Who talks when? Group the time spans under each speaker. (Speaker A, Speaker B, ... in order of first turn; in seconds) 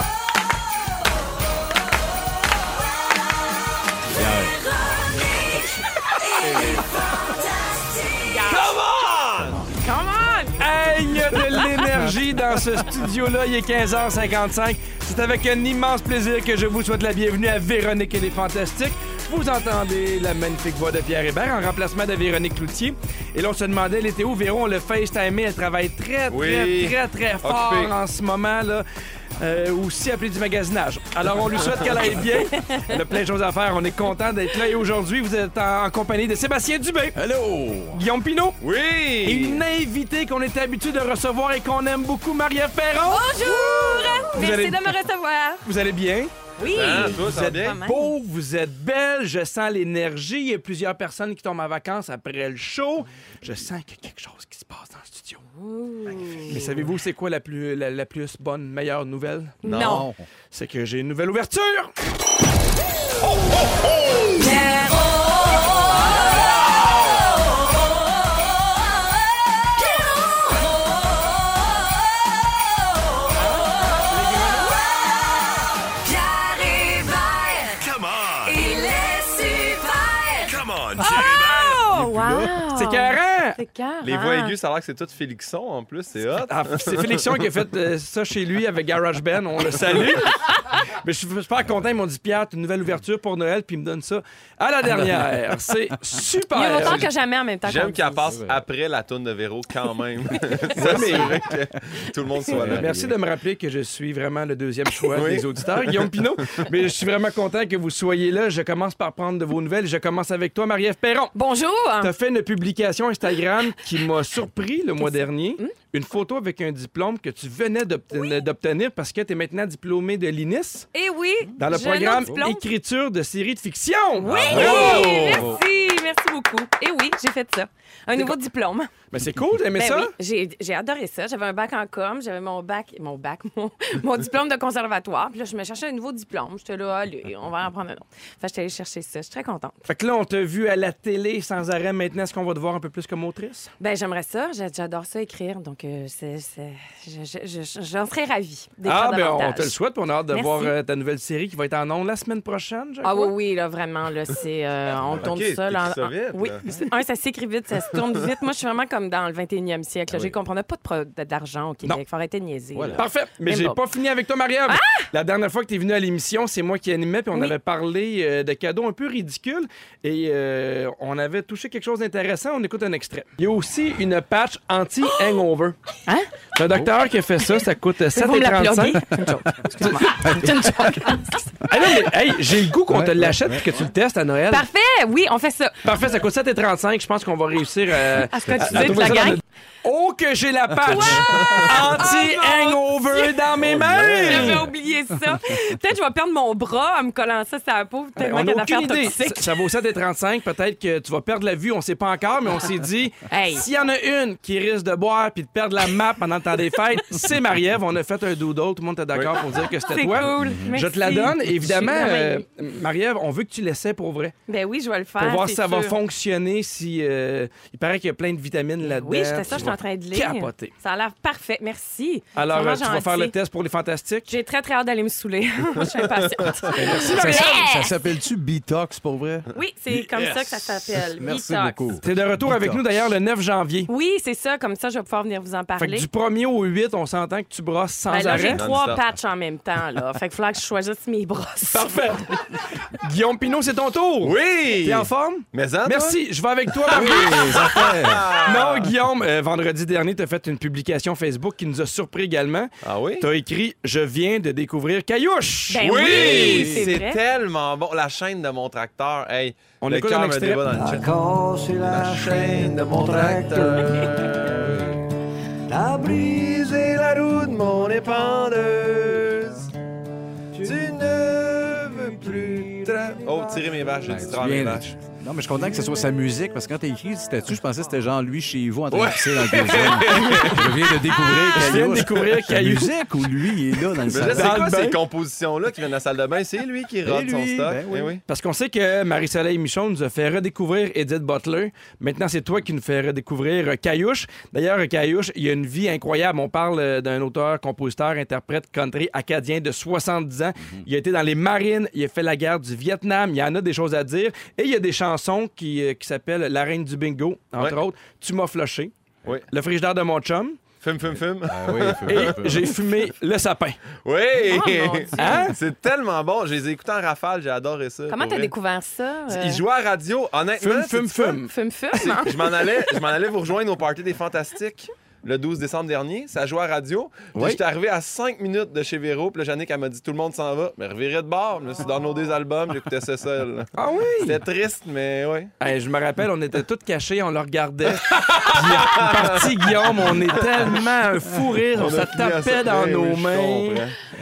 Speaker A: 4.1-4.6, 9.3-9.7, 37.1-38.0, 59.6-60.2, 81.9-82.5, 98.2-98.6, 102.5-103.2, 124.3-125.5, 155.0-155.3, 160.1-160.4, 162.7-163.1, 179.3-180.6, 182.9-183.7, 188.4-189.0, 210.3-210.8, 227.1-232.8, 246.9-248.3, 256.4-256.9, 264.6-264.9, 274.0-284.6, 287.0-288.2, 311.4-312.7
Speaker B: 8.2-8.8, 9.8-10.6, 43.1-45.6, 46.6-48.1, 55.6-56.6, 59.6-60.0, 64.4-65.8, 76.1-77.8, 78.4-84.5, 96.5-98.2, 111.3-112.1, 115.0-115.7, 120.9-122.6, 124.3-128.9, 129.8-139.8, 143.8-149.7, 150.3-150.7, 153.0-163.8, 164.7-165.1, 178.2-181.7, 184.5-185.8, 188.3-189.4, 190.8-193.4, 194.2-199.5, 203.3-203.7, 209.9-212.4, 214.5-215.9, 218.8-223.3, 224.3-227.9, 229.5-231.8, 233.9-236.1, 238.1-241.9, 255.7-257.2, 314.4-315.5, 318.1-319.6, 321.4-322.8
Speaker C: 8.5-9.1, 10.6-28.8, 29.4-37.2, 37.9-38.6, 39.2-43.4, 44.2-44.9, 45.6-55.4, 56.5-59.6, 60.5-61.9, 74.2-74.6, 82.7-83.6, 86.5-97.0, 100.7-101.4, 102.6-111.3, 112.0-120.9, 121.6-125.4, 129.1-130.1, 139.9-143.7, 148.8-153.3, 162.9-175.8, 176.5-179.1, 179.8-180.9, 181.7-184.7, 185.8-194.6, 198.2-214.3, 215.2-220.7, 222.3-224.3, 226.7-227.6, 232.0-233.9, 235.8-238.7, 241.7-242.3, 242.9-256.7, 259.8-260.6, 280.1-280.6, 281.5-283.0, 284.2-285.0, 288.3-308.9, 309.5-310.6, 312.1-313.8, 315.2-315.5, 320.6-321.5, 333.8-334.4, 335.6-343.8
Speaker D: 26.3-27.9, 38.6-39.6, 46.6-47.8, 59.6-60.0, 84.0-87.5, 96.8-97.1, 97.6-102.9, 105.1-106.2, 124.3-125.6, 155.2-156.6, 191.4-191.6, 193.7-194.6, 209.1-209.4, 238.4-239.0, 244.2-246.2, 246.8-248.9, 252.8-253.2, 255.8-261.1, 261.8-264.8, 266.1-269.7, 270.6-274.9, 278.9-280.9, 284.0-288.2, 310.8-312.4, 314.0-318.5, 319.3-321.4, 321.9-333.7, 334.2-335.5, 338.1-340.8, 341.7-343.9
Speaker E: 260.7-264.1, 265.7-266.2